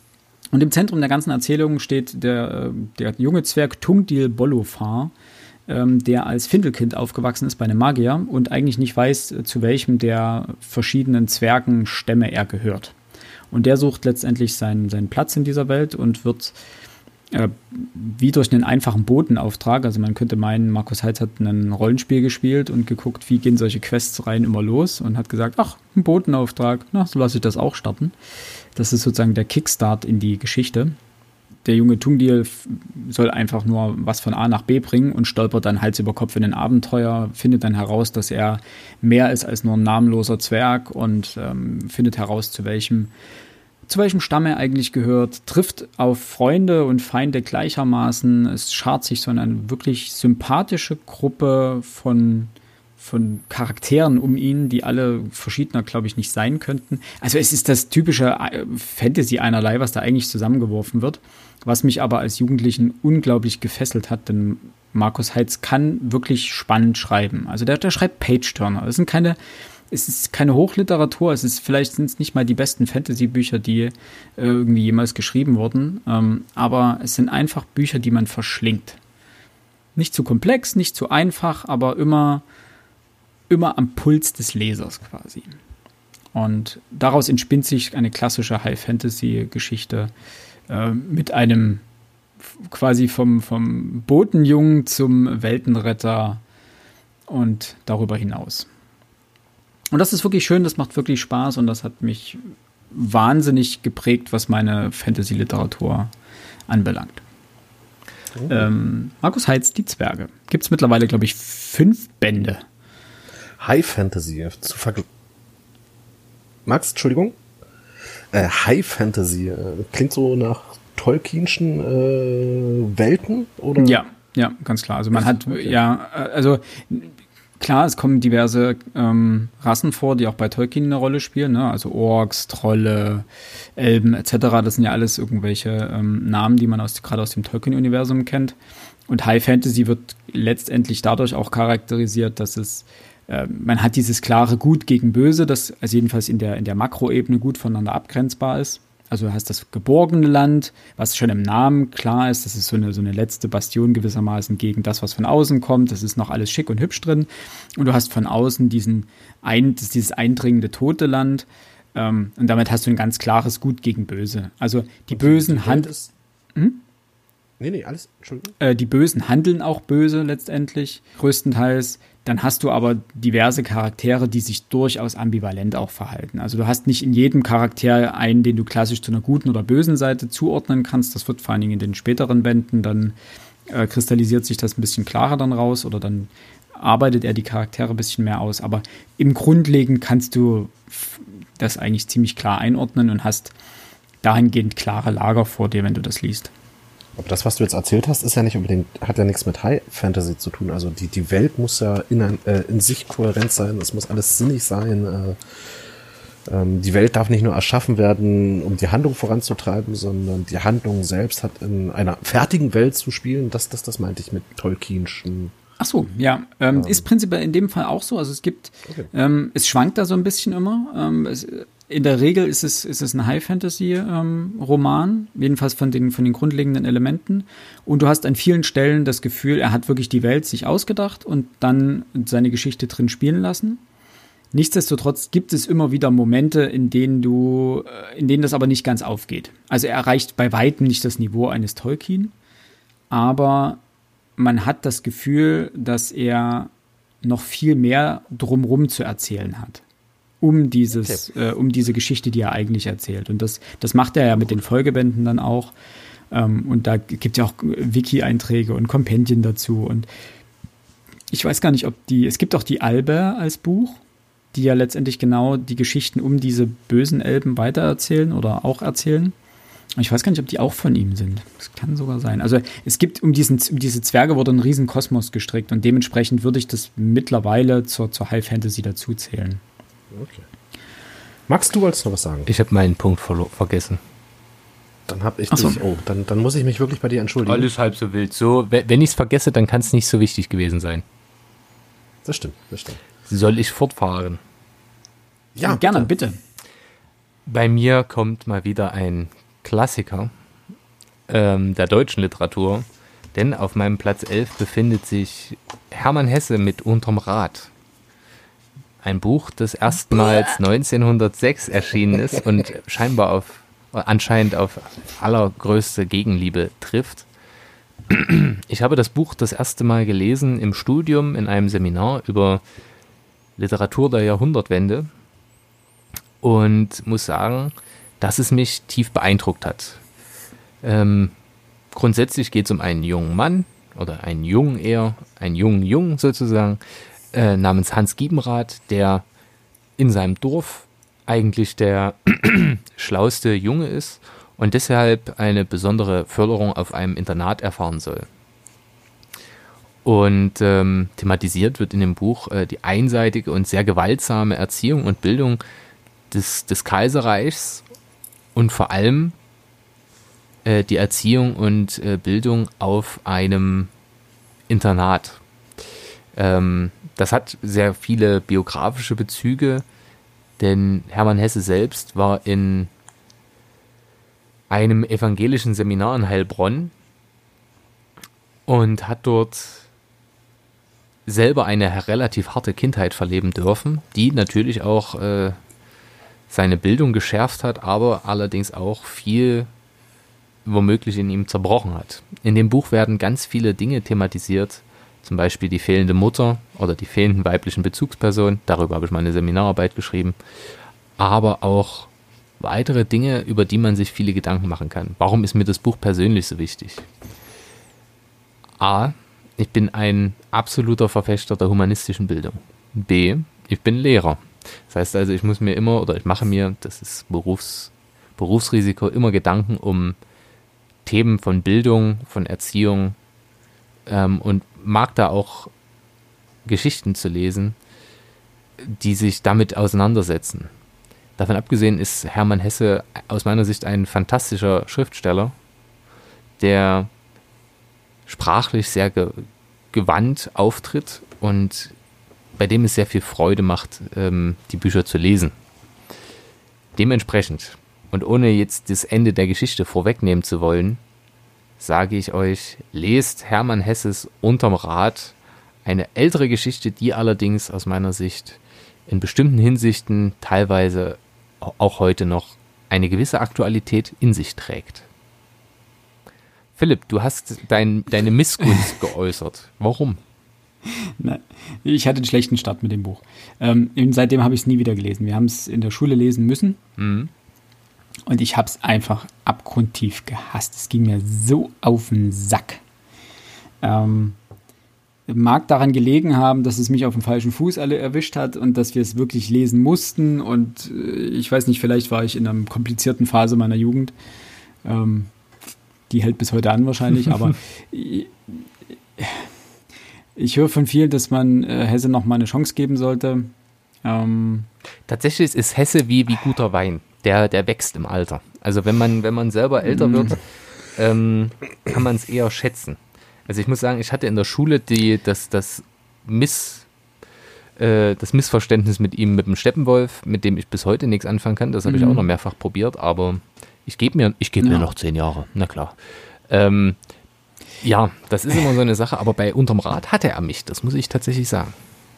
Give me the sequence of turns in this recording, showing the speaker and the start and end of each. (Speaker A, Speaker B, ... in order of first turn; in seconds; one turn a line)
Speaker A: 0.5-5.1
Speaker A: 5.7-12.9
Speaker A: 13.5-16.6
Speaker A: 17.3-28.1
Speaker A: 28.8-30.9
Speaker A: 31.6-43.1
Speaker A: 43.9-69.4
Speaker A: 69.9-79.0
Speaker A: 80.0-82.4
Speaker A: 83.5-85.5
Speaker A: 86.3-90.1
Speaker A: 90.7-91.8
Speaker A: 92.5-96.4
Speaker A: 97.3-98.7
Speaker A: 99.9-102.4
Speaker A: 102.9-106.1
Speaker A: 106.7-107.2
Speaker B: 108.4-108.7
Speaker A: 108.5-112.6
Speaker B: 113.6-115.1
Speaker B: 116.7-117.3
Speaker B: 118.3-124.0
Speaker A: 123.8-133.3
Speaker B: 125.2-125.8
Speaker A: 133.8-138.6
Speaker A: 139.1-165.9
Speaker B: 165.1-166.1
Speaker A: 166.6-166.8
Speaker B: 167.6-168.5
Speaker A: 168.6-183.2
Speaker A: 183.7-193.5
Speaker A: 194.2-196.5
Speaker B: 197.2-205.4
Speaker B: 206.5-215.5
Speaker A: 215.8-233.8
Speaker B: 216.7-217.1
Speaker A: 234.5-242.3
Speaker A: 243.1-243.8
Speaker A: 244.4-246.7
Speaker A: 247.2-249.8
Speaker A: 250.4-255.7
Speaker A: 256.3-260.1
Speaker A: 261.3-264.0
Speaker A: 264.5-269.3
Speaker A: 270.0-279.6
Speaker B: 280.1-280.4
Speaker B: 281.5-282.5
Speaker C: 282.5-284.0
Speaker B: 285.1-287.7
Speaker A: 285.5-285.8
Speaker C: 287.4-291.0
Speaker B: 292.2-293.0
Speaker C: 293.3-294.4
Speaker B: 295.6-296.1
Speaker A: 295.6-296.4
Speaker C: 297.5-300.3
Speaker C: 301.3-307.7
Speaker C: 309.0-317.3
Speaker C: 318.1-322.6
Speaker C: 323.6-325.1
Speaker C: 326.4-330.0
Speaker C: 330.8-331.3
Speaker C: 331.9-336.8
Speaker C: 337.3-339.2
Speaker C: 340.0-348.3
Speaker C: 350.1-355.6
Speaker C: 356.3-357.8
Speaker C: 358.6-359.4
Speaker C: 360.6-363.9
Speaker C: 364.7-365.4
Speaker C: 366.4-369.9
Speaker C: 370.6-372.9
Speaker C: 374.7-376.9
Speaker C: 378.7-379.9
Speaker C: 381.3-385.6
Speaker C: 386.5-389.7
Speaker C: 390.7-400.4
Speaker C: 401.2-407.1
Speaker C: 408.8-420.2
Speaker C: 421.1-423.2
Speaker C: 424.1-425.7
Speaker C: 426.7-427.8
Speaker C: 428.8-430.7
Speaker C: 431.4-435.5
Speaker C: 436.6-437.1
Speaker C: 438.3-441.9
Speaker C: 442.6-445.5
Speaker C: 447.0-451.0
Speaker C: 451.8-465.0
Speaker C: 466.8-470.2
Speaker A: 471.2-476.8
Speaker C: 477.0-477.3
Speaker A: 478.3-482.8
Speaker A: 483.8-484.4
Speaker A: 485.3-494.1
Speaker A: 494.8-495.3
Speaker A: 496.1-498.6
Speaker A: 499.2-499.4
Speaker A: 500.4-503.5
Speaker A: 504.0-504.7
Speaker C: 505.1-510.4
Speaker A: 509.8-510.4
Speaker C: 511.0-516.9
Speaker C: 517.8-526.0
Speaker A: 521.9-522.3
Speaker A: 524.6-524.9
Speaker C: 526.5-527.0
Speaker C: 527.8-531.7